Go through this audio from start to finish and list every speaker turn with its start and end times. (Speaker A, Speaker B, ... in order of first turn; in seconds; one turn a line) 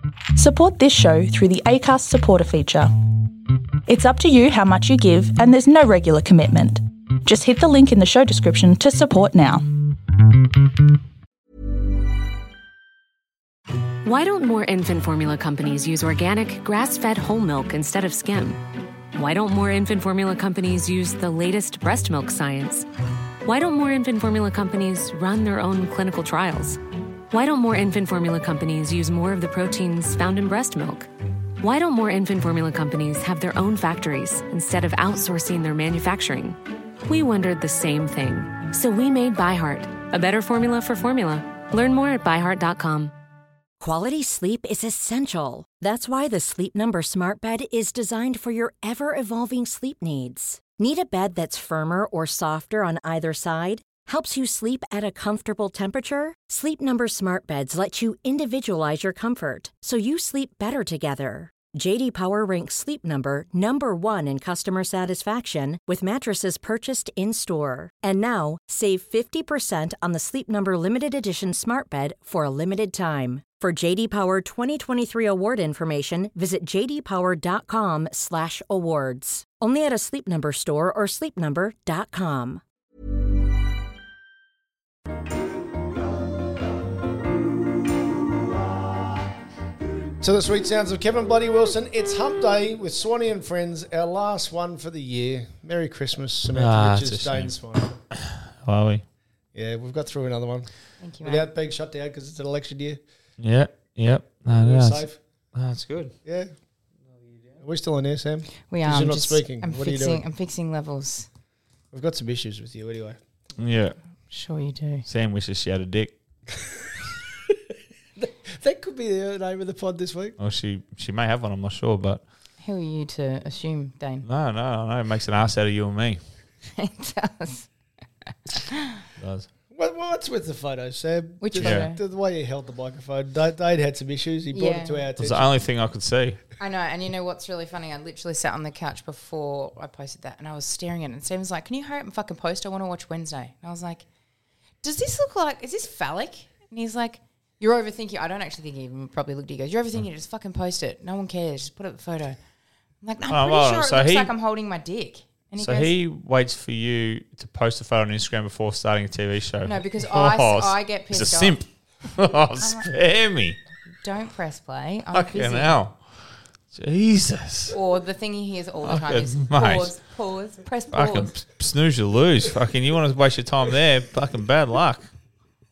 Speaker A: 0.3-2.9
Speaker A: 3.9-9.7
Speaker B: 14.0-18.6
Speaker B: 19.1-22.9
Speaker B: 23.4-26.8
Speaker B: 27.3-31.1
Speaker B: 31.6-43.1
Speaker C: 43.8-82.6
Speaker D: 90.2-97.9
Speaker E: 96.5-97.5
Speaker E: 98.1-99.0
Speaker D: 99.5-100.7
Speaker F: 101.0-101.4
Speaker D: 101.2-103.0
Speaker E: 103.4-106.2
Speaker D: 104.5-105.2
Speaker D: 106.2-106.5
Speaker D: 107.6-110.2
Speaker F: 108.7-111.3
Speaker D: 111.9-113.2
Speaker E: 113.6-114.0
Speaker F: 114.3-115.0
Speaker E: 115.0-116.1
Speaker D: 118.2-120.4
Speaker E: 120.4-122.2
Speaker F: 122.6-124.2
Speaker E: 124.2-126.2
Speaker F: 126.8-127.7
Speaker F: 128.5-129.0
Speaker E: 129.2-129.5
Speaker D: 129.7-135.5
Speaker F: 131.4-132.0
Speaker E: 131.6-131.9
Speaker F: 134.5-135.0
Speaker E: 135.2-136.4
Speaker F: 136.6-144.1
Speaker F: 144.8-152.4
Speaker F: 153.0-155.9
Speaker E: 153.3-154.3
Speaker E: 155.6-163.6
Speaker F: 159.6-161.6
Speaker F: 162.6-162.9
Speaker F: 164.0-165.8
Speaker E: 165.1-166.2
Speaker E: 166.7-167.8
Speaker F: 167.7-171.3
Speaker E: 168.8-169.9
Speaker E: 170.9-175.1